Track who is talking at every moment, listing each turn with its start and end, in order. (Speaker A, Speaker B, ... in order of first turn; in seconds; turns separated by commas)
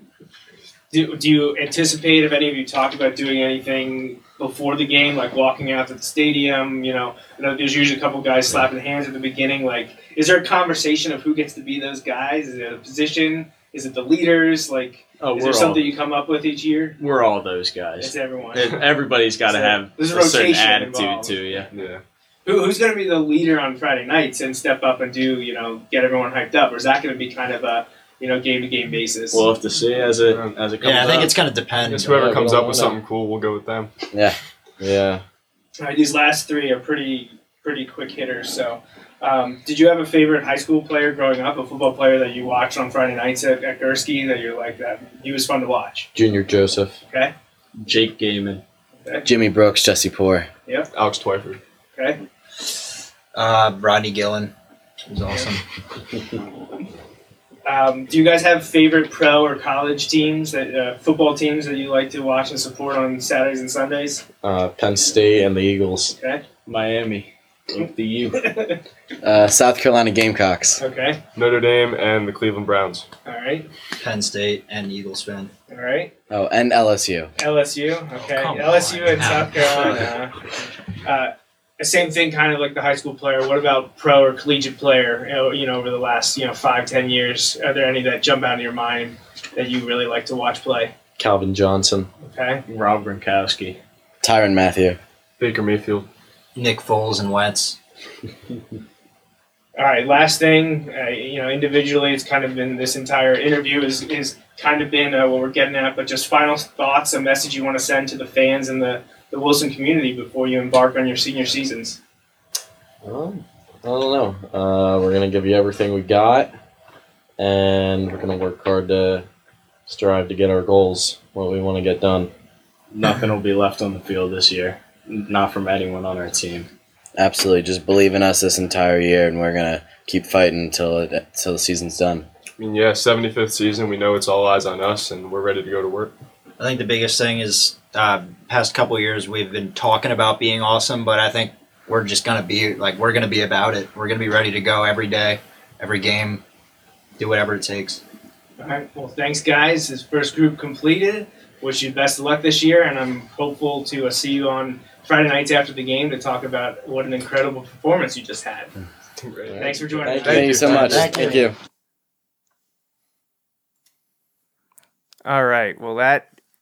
Speaker A: 0.9-17.0, Speaker B: 15.2-15.9, Speaker B: 17.0-21.7, Speaker A: 18.0-18.8, Speaker A: 19.5-21.6, Speaker C: 21.7-22.0, Speaker A: 22.5-29.5, Speaker B: 29.3-31.4, Speaker C: 30.3-30.5, Speaker D: 30.8-32.5, Speaker C: 31.8-33.9, Speaker E: 32.1-33.0, Speaker F: 34.1-35.2, Speaker A: 35.8-46.1, Speaker E: 46.1-47.0, Speaker A: 47.1-47.3, Speaker B: 47.8-48.6, Speaker F: 49.2-50.5, Speaker C: 50.9-51.6, Speaker D: 53.3-54.5, Speaker D: 55.1-55.6, Speaker A: 57.7-64.2, Speaker E: 64.4-66.2, Speaker A: 66.1-66.4, Speaker B: 66.7-68.5, Speaker A: 68.4-68.8, Speaker F: 69.2-70.8, Speaker A: 70.8-71.2, Speaker C: 71.4-73.1, Speaker A: 73.2-73.7, Speaker D: 74.0-75.5, Speaker A: 75.7-76.1, Speaker F: 76.3-77.3, Speaker A: 77.4-80.4, Speaker D: 78.2-80.2, Speaker A: 81.0-90.9, Speaker E: 91.2-92.1, Speaker A: 92.2-92.6, Speaker B: 92.7-93.8, Speaker F: 94.2-95.0, Speaker C: 95.4-96.1, Speaker D: 96.5-97.8, Speaker A: 99.8-112.0, Speaker E: 113.0-116.6, Speaker E: 117.4-119.3, Speaker E: 119.9-122.3, Speaker B: 122.9-126.7, Speaker F: 127.2-132.3, Speaker C: 132.6-136.1, Speaker D: 136.6-146.4, Speaker D: 147.2-148.0, Speaker A: 148.6-158.7, Speaker C: 159.2-161.1, Speaker E: 159.5-161.3, Speaker A: 159.6-161.4, Speaker F: 160.1-161.6, Speaker A: 165.2-166.3